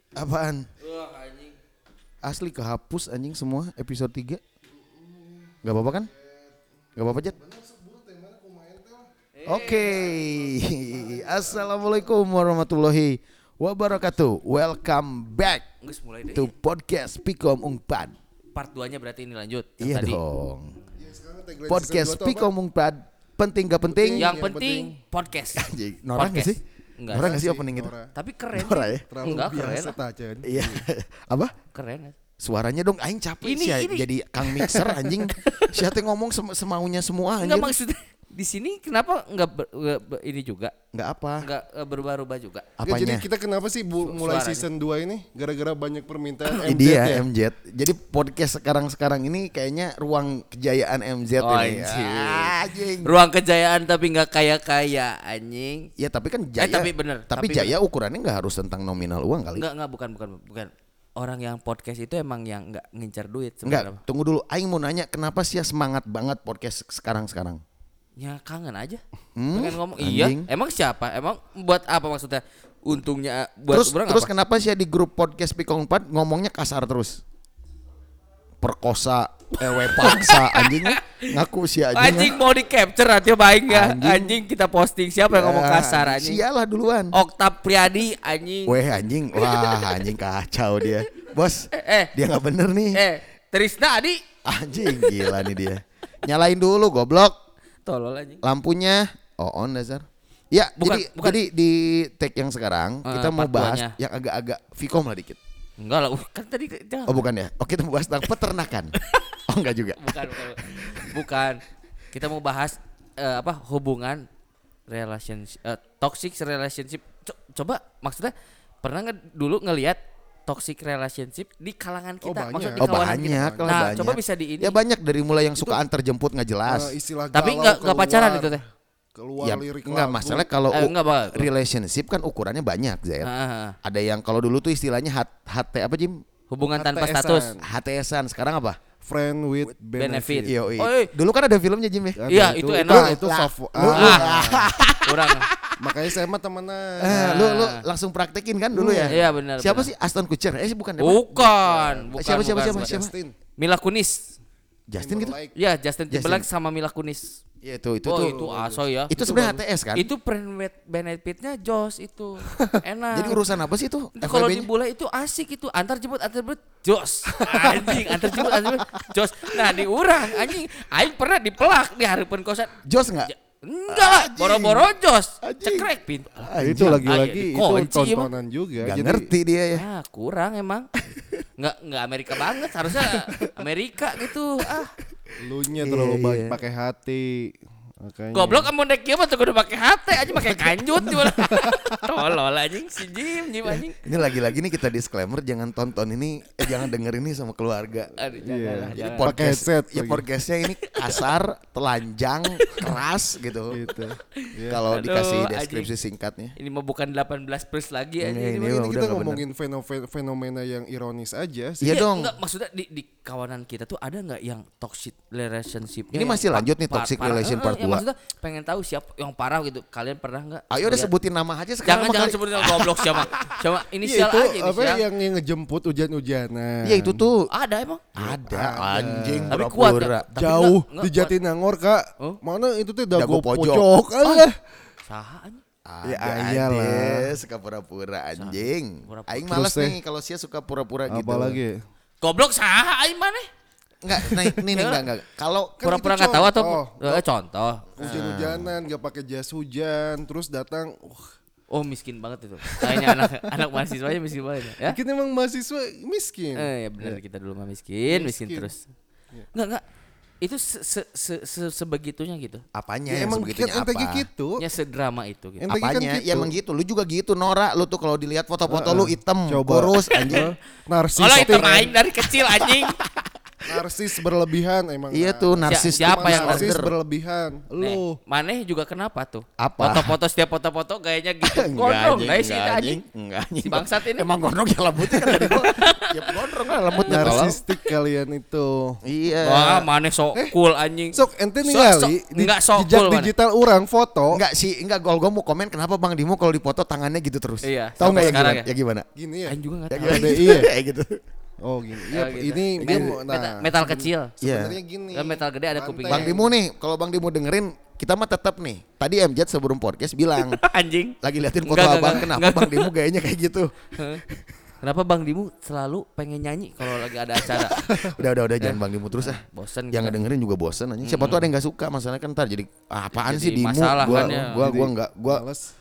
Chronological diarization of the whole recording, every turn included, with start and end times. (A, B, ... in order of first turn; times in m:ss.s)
0:00.1-0:00.7 A
0:00.8-0:01.5 B
0:02.2-0:04.4 A
0:04.8-0:06.5 C
0:05.6-0:06.1 A
0:07.0-0:07.4 A
0:07.1-0:09.1 C
0:09.4-0:10.1 B
0:09.4-0:15.6 A
0:10.2-0:11.7 C
0:15.8-0:16.5 B
0:16.3-0:18.1 A
0:18.5-0:20.2 B
0:19.8-0:20.8 A
0:21.0-0:22.5 C
0:21.7-0:24.3 A
0:23.8-0:25.0 C
0:24.2-0:27.3 B
0:25.5-0:26.6 A
0:27.1-0:27.9 A
0:27.1-0:28.1 C
0:28.1-0:30.0 B
0:28.5-0:29.0 A
0:29.1-0:30.8 C
0:30.4-0:31.5 A
0:31.7-0:32.1 B
0:32.4-0:37.7 A
0:33.4-0:35.8 B
0:37.4-0:40.7 B
0:40.9-0:41.5 A
0:41.4-0:42.6 B
0:42.8-0:43.3 A
0:42.8-0:47.2 C
0:44.0-0:44.7 B
0:46.5-0:53.1 A
0:51.4-0:55.9 B
0:56.0-0:59.6 A
0:56.6-0:57.7 B
0:59.6-1:04.0 B
1:03.6-1:07.6 A
1:08.2-1:09.0 B
1:09.4-1:10.5 A
1:09.5-1:14.3 B
1:13.7-1:17.2 A
1:18.6-1:22.4 A
1:19.8-1:21.4 B
1:21.9-1:26.4 B
1:23.7-1:24.4 A
1:25.3-1:27.2 A
1:27.1-1:28.8 B
1:28.6-1:33.0 A
1:29.4-1:30.0 B
1:31.7-1:32.1 B
1:32.9-1:34.2 B
1:34.4-1:37.3 A
1:34.9-1:35.5 B
1:37.8-1:38.4 B
1:38.4-1:45.4 A
1:40.8-1:41.4 B
1:43.0-1:43.9 B
1:45.8-1:47.2 B
1:47.1-1:49.0 A
1:49.5-1:51.2 A
1:50.0-1:54.3 B
1:54.9-2:04.8 B
2:02.2-2:04.0 C
2:02.8-2:06.9 A
2:06.6-2:08.6 C
2:07.3-2:08.6 B
2:09.1-2:10.5 C
2:09.4-2:13.3 A
2:10.7-2:11.5 B
2:13.2-2:13.8 B
2:13.8-2:16.2 A
2:16.5-2:17.5 B
2:16.7-2:17.6 C
2:17.6-2:18.8 A
2:19.0-2:20.6 C
2:20.0-2:21.1 B
2:20.5-2:25.7 A
2:22.2-2:24.7 C
2:22.3-2:23.2 B
2:23.8-2:24.3 B
2:25.0-2:25.5 B
2:25.8-2:27.4 C
2:27.0-2:31.3 A
2:27.0-2:27.8 B
2:28.7-2:29.2 C
2:29.1-2:29.9 B
2:31.0-2:32.9 B
2:31.3-2:33.3 C
2:32.2-2:33.1 A
2:33.6-2:34.3 B
2:34.9-2:35.4 A
2:35.0-2:35.5 C
2:35.5-2:37.4 B
2:36.1-2:36.4 A
2:37.6-2:38.5 A
2:38.0-2:43.4 B
2:38.2-2:38.8 C
2:39.1-2:40.1 A
2:43.1-2:44.7 A
2:44.2-2:52.7 B
2:47.3-2:47.9 C
2:48.3-2:48.8 A
2:52.8-2:53.3 A
2:53.3-2:58.3 B
2:53.9-2:54.9 A
2:55.4-2:57.0 A
2:56.6-2:59.3 C
2:58.8-2:59.8 A
2:59.7-3:00.9 B
3:01.6-3:04.9 B
3:02.9-3:03.6 A
3:05.4-3:08.7 C
3:05.8-3:06.6 A
3:08.3-3:14.0 B
3:14.0-3:18.2 A
3:18.1-3:19.5 B
3:18.4-3:20.2 C
3:18.9-3:23.8 A
3:20.8-3:21.2 B
3:22.5-3:22.9 B
3:23.7-3:24.8 C
3:24.4-3:25.9 B
3:24.6-3:26.6 A
3:26.6-3:28.8 B
3:28.2-3:29.4 A
3:28.8-3:32.0 C
3:31.8-3:32.3 A
3:31.9-3:41.1 B
3:36.1-3:38.0 A
3:40.7-3:43.6 A
3:41.8-3:45.0 B
3:44.0-3:47.3 C
3:46.8-3:47.5 A
3:47.5-3:48.0 B
3:48.2-3:49.6 C
3:48.2-3:50.7 A
3:49.5-3:51.3 B
3:50.3-3:54.6 C
3:53.1-3:54.4 A
3:55.0-3:55.6 B
3:55.8-4:01.6 A
3:56.0-3:57.4 C
3:58.4-3:59.5 B
3:59.5-4:00.0 C
4:01.1-4:01.8 C
4:02.2-4:03.5 B
4:04.0-4:05.8 A
4:04.2-4:05.1 B
4:05.8-4:07.2 C
4:05.8-4:07.8 B
4:08.0-4:11.3 C
4:08.0-4:08.7 A
4:11.7-4:15.0 B
4:12.7-4:13.2 C
4:14.8-4:17.2 C
4:16.6-4:18.9 B
4:18.1-4:18.7 C
4:19.5-4:19.8 B
4:20.4-4:22.6 B
4:22.7-4:24.3 A
4:23.1-4:24.6 C
4:24.6-4:25.7 B
4:25.6-4:26.5 C
4:25.7-4:30.4 A
4:28.7-4:31.9 C
4:31.2-4:33.0 B
4:32.2-4:33.3 A
4:33.6-4:38.2 C
4:35.1-4:36.9 A
4:35.6-4:36.7 B
4:37.8-4:43.0 B
4:39.6-4:40.1 A
4:41.4-4:47.6 A
4:43.6-4:44.4 B
4:45.3-4:47.6 B
4:47.0-4:49.0 C
4:49.0-4:49.9 A
4:49.4-4:53.3 B
4:51.1-4:54.4 C
4:54.3-4:59.0 A
4:57.6-4:58.7 B
4:59.1-5:00.7 C
4:59.5-5:00.6 B
4:59.9-5:01.2 A
5:01.6-5:06.5 C
5:02.1-5:04.3 B
5:04.4-5:04.8 A
5:05.1-5:06.3 B
5:06.1-5:10.6 A
5:10.4-5:12.9 B
5:11.2-5:14.4 A
5:14.8-5:17.8 B
5:17.6-5:25.4 A
5:17.9-5:18.1 C
5:18.6-5:20.2 B
5:21.0-5:21.5 B
5:23.2-5:24.7 B
5:24.0-5:25.7 C